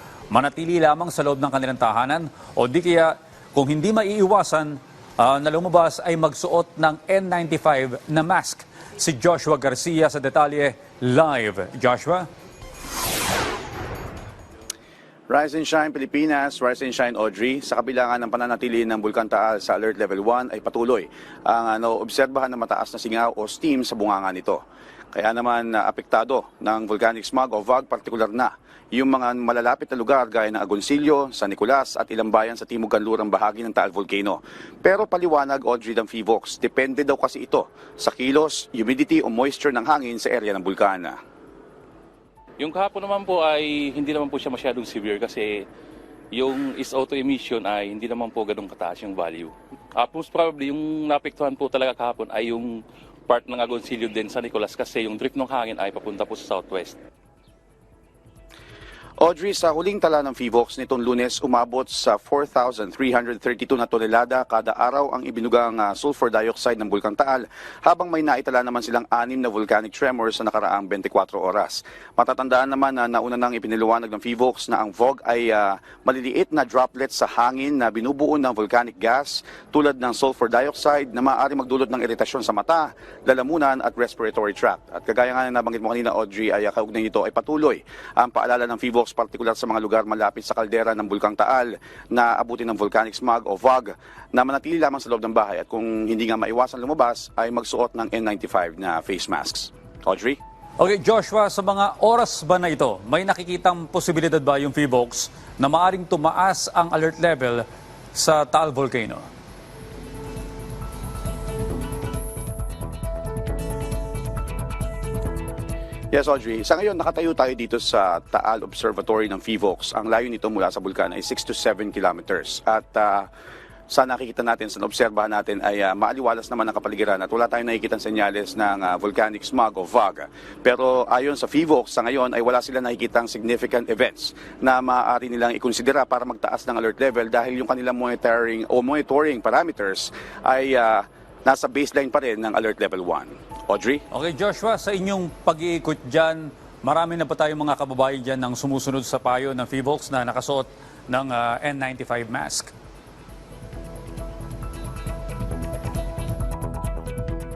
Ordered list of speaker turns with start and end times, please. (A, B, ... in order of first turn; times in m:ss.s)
0:00.3-0:12.3 A
0:15.3-0:24.6 B
0:25.1-0:41.2 B
0:42.6-0:45.6 C
0:46.3-0:57.0 C
0:59.2-1:40.4 B
1:40.8-1:49.2 A
1:56.1-2:03.3 B
2:03.9-2:24.0 B
2:24.1-2:32.7 A